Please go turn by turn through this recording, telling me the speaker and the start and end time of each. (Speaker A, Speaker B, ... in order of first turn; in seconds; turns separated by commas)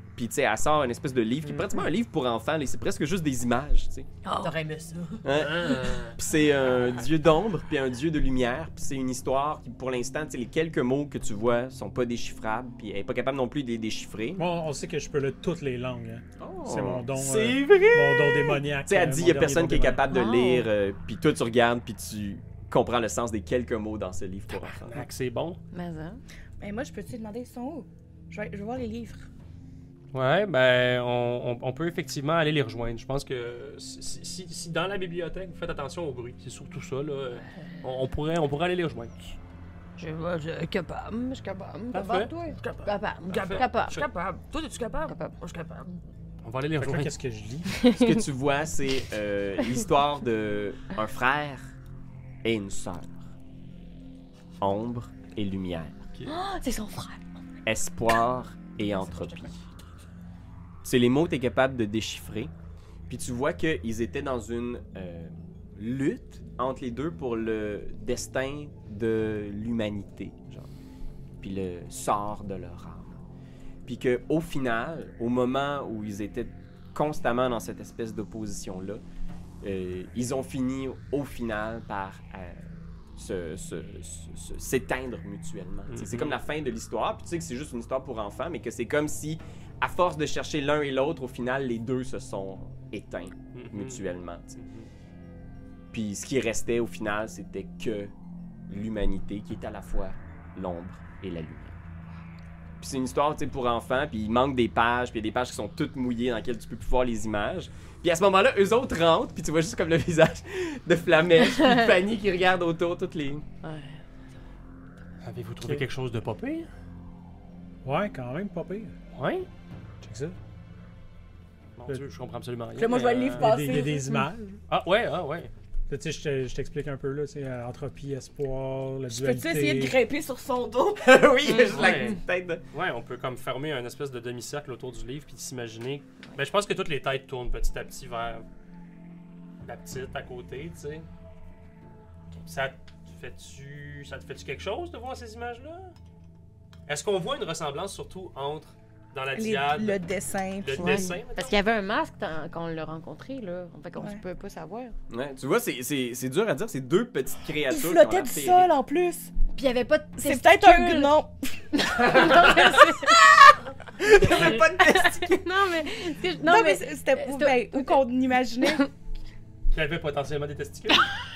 Speaker A: 0.2-4.1, Speaker B: 1.4-1.8, Speaker C: 4.2-4.5, Speaker D: 4.4-5.3, Speaker A: 5.2-14.4, Speaker E: 5.3-6.2, Speaker B: 14.4-20.1, Speaker A: 16.4-24.9, Speaker C: 20.1-20.7, Speaker E: 24.6-25.6, Speaker C: 25.7-26.2, Speaker F: 26.6-29.3, Speaker E: 30.1-39.4, Speaker C: 40.0-44.0, Speaker E: 41.9-42.3, Speaker D: 42.0-46.0, Speaker E: 43.3-44.1, Speaker C: 45.1-45.4, Speaker E: 46.4-47.1, Speaker B: 46.8-47.7, Speaker C: 47.7-48.2, Speaker A: 47.9-51.7, Speaker A: 52.4-53.2, Speaker A: 54.6-56.0, Speaker C: 56.3-57.2, Speaker A: 57.6-59.5, Speaker C: 59.1-59.5, Speaker A: 60.8-62.5, Speaker A: 63.1-70.7, Speaker A: 71.4-73.2, Speaker A: 73.9-79.0, Speaker A: 79.6-94.6, Speaker E: 85.9-86.4, Speaker E: 93.5-94.0, Speaker E: 94.6-94.9, Speaker A: 95.9-98.1, Speaker A: 98.7-101.8, Speaker A: 102.8-113.5, Speaker C: 113.6-114.0, Speaker E: 115.2-116.7, Speaker B: 117.8-118.9, Speaker E: 119.1-119.5, Speaker B: 120.0-120.4, Speaker E: 121.8-123.6, Speaker F: 122.8-124.3, Speaker B: 123.4-124.6, Speaker E: 124.7-125.5, Speaker B: 125.9-130.0, Speaker F: 129.1-131.2, Speaker A: 131.0-132.6, Speaker C: 131.5-132.2, Speaker E: 131.7-132.2, Speaker E: 132.7-138.4, Speaker E: 139.6-141.1, Speaker E: 142.5-145.9, Speaker E: 146.9-150.0, Speaker F: 149.3-151.2, Speaker E: 150.6-151.6, Speaker C: 150.8-154.9, Speaker A: 155.1-158.7, Speaker F: 157.7-159.3, Speaker C: 159.6-161.2, Speaker F: 160.2-162.8, Speaker C: 161.8-163.5, Speaker A: 164.0-165.4, Speaker C: 164.2-168.0, Speaker F: 166.4-168.9, Speaker E: 169.7-171.1